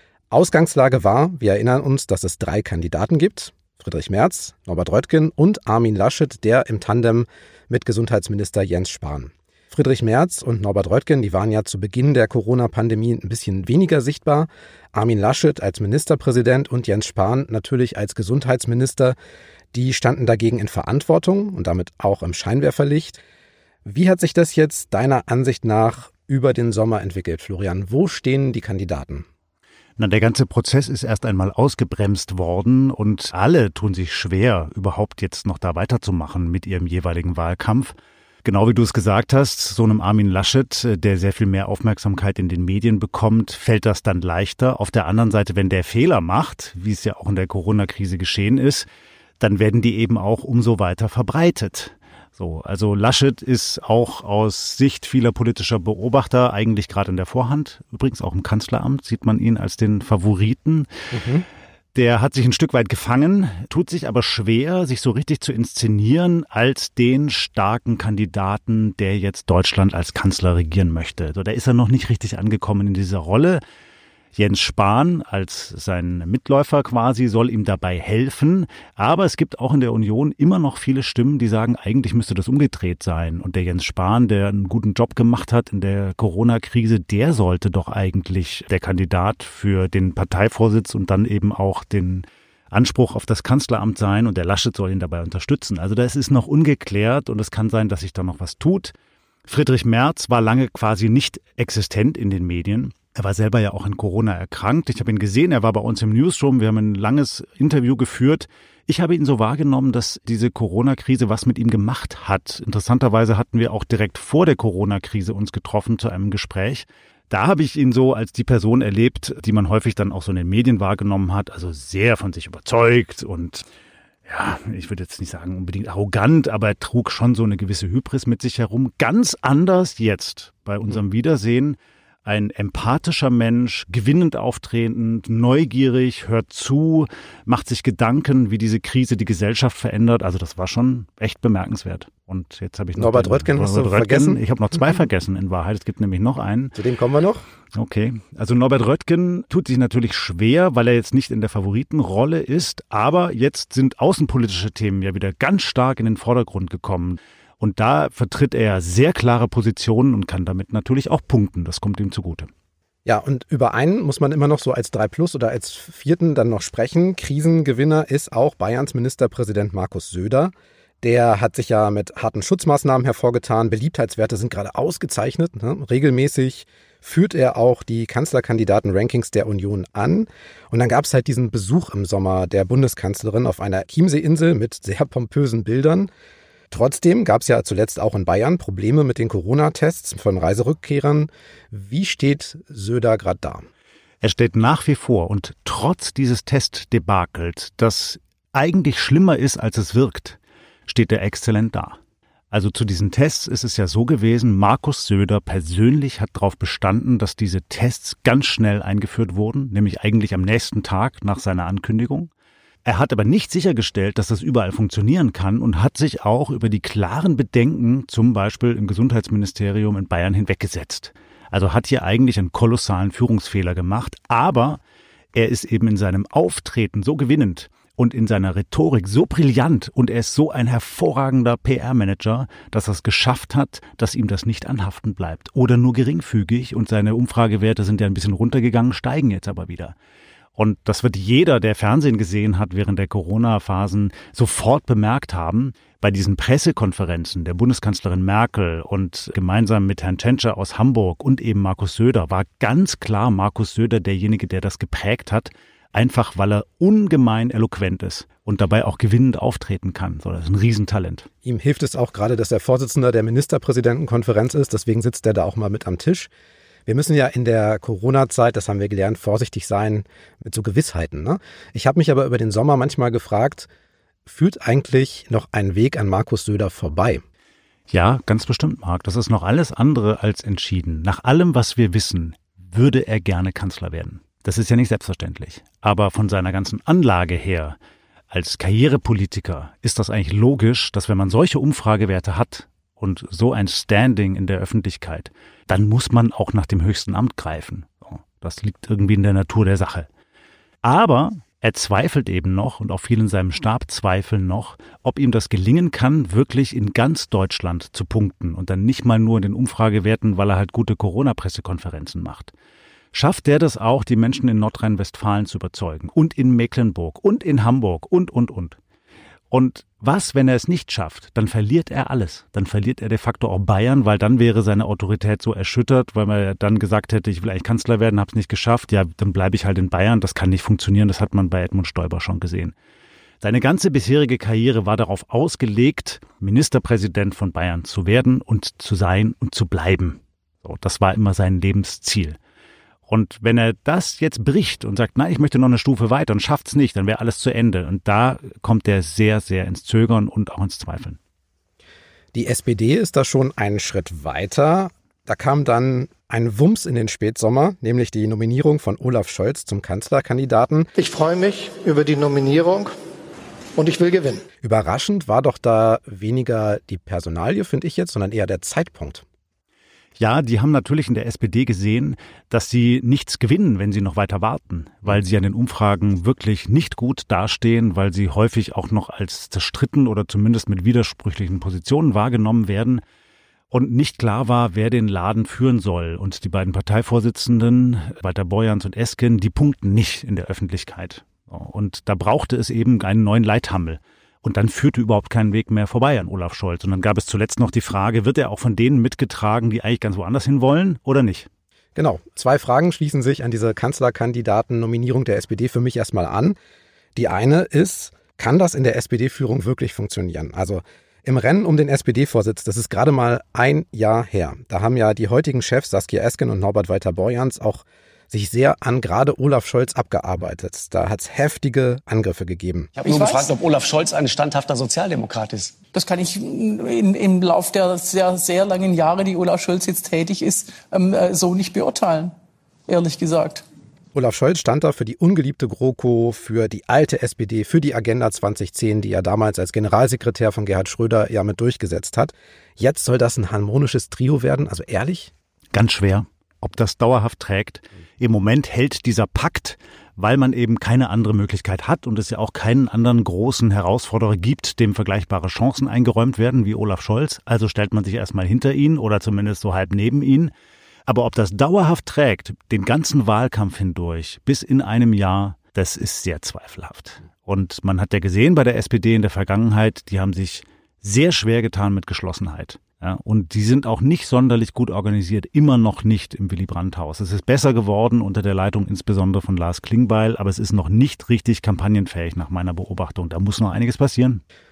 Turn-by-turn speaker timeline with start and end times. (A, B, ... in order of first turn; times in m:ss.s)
0:00.3-0:19.2 A
0:19.7-0:23.2 A
0:23.8-0:29.2 A
0:30.0-0:48.9 B
0:49.4-1:00.9 B
1:01.1-1:01.4 A
1:01.9-1:13.6 B
1:14.3-1:38.9 B
1:39.4-2:03.7 B
2:04.2-2:26.8 B
2:23.0-2:24.4 A
2:26.8-2:27.4 A
2:27.7-2:42.5 B
2:43.1-3:06.1 A
3:06.7-3:13.6 A
3:14.2-3:22.0 B
3:22.5-3:32.3 B
3:32.8-3:44.8 B
3:45.3-4:00.0 B
4:00.6-4:21.3 B
4:21.4-4:26.3 A
4:26.8-4:33.7 A
4:34.2-4:37.2 A
4:37.9-4:47.8 B
4:48.3-5:00.1 B
5:00.8-5:12.5 B
5:13.1-5:18.8 B
5:19.5-5:32.8 B
5:33.4-5:42.4 B
5:43.1-5:51.2 B
5:52.3-6:00.9 A
6:01.0-6:02.9 C
6:03.8-6:04.4 C
6:04.6-6:09.2 A
6:10.2-6:23.0 B
6:23.7-6:41.5 B
6:42.0-6:46.6 A
6:47.2-7:02.9 A
7:03.0-7:05.8 D
7:03.0-7:03.5 E
7:05.9-7:12.3 E
7:12.9-7:13.6 E
7:14.1-7:25.3 A
7:25.7-7:40.5 B
7:41.1-8:04.4 B